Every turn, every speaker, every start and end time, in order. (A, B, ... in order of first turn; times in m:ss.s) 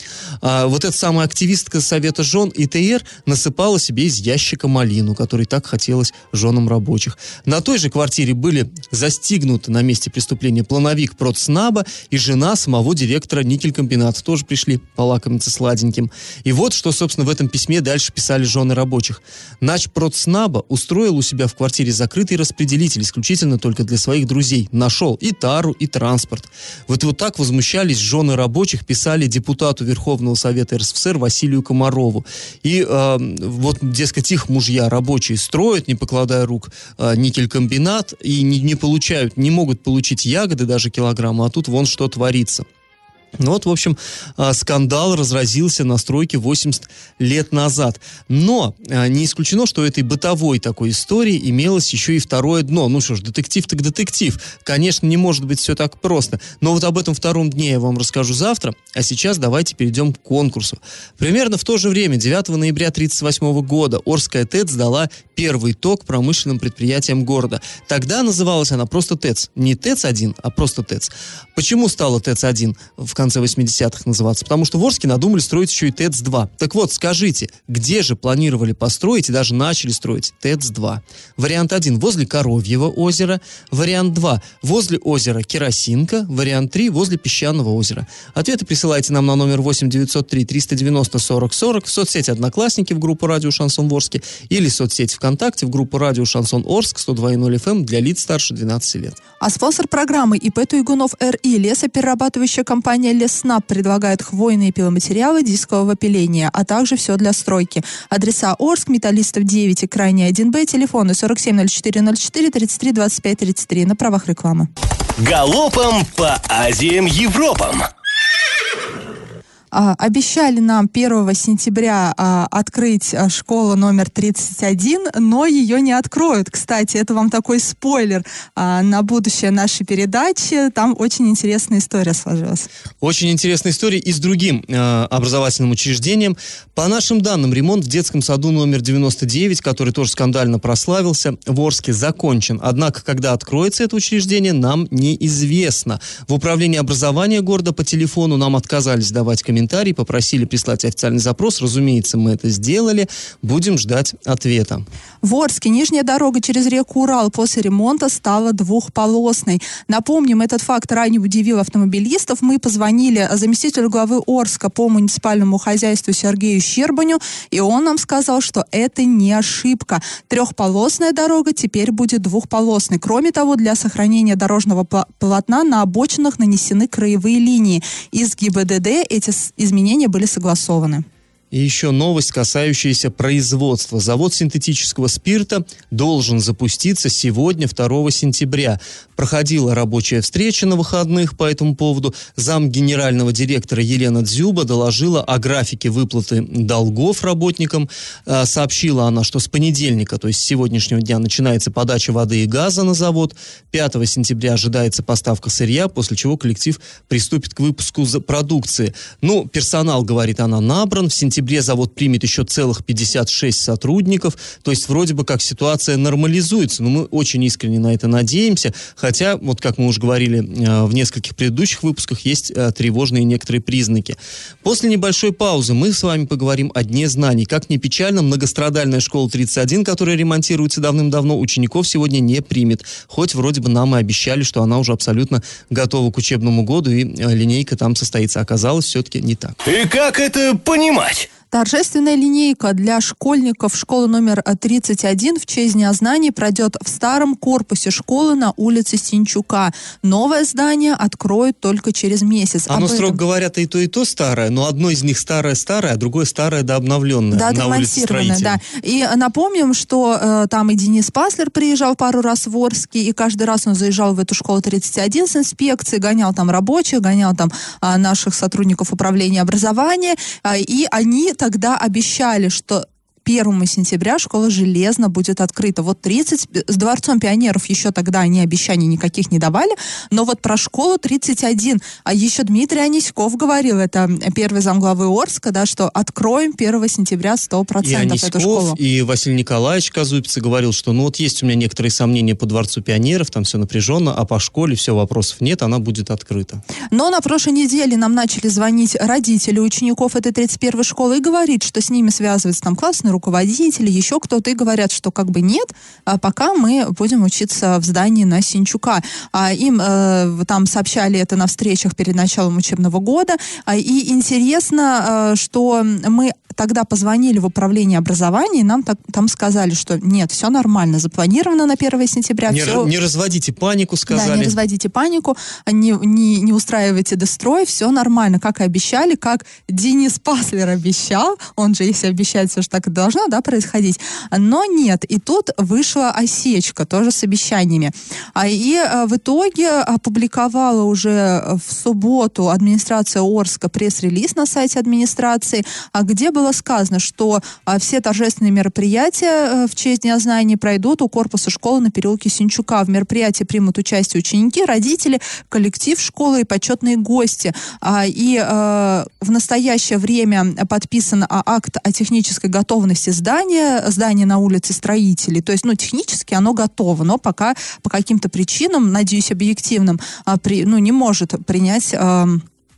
0:00.4-0:42.7 A
0:43.4-1:39.2 A
1:39.4-1:54.7 B
1:55.2-1:57.9 C
1:59.7-2:12.7 B
2:13.0-2:34.9 A
2:35.2-3:01.0 B
3:01.5-3:59.6 A
3:59.6-4:01.3 C
4:01.5-4:13.2 B
4:12.7-4:18.6 A
4:17.3-4:48.8 B
4:47.8-4:56.6 A
4:56.9-5:22.9 B
5:22.5-5:24.6 A
5:24.1-6:12.4 B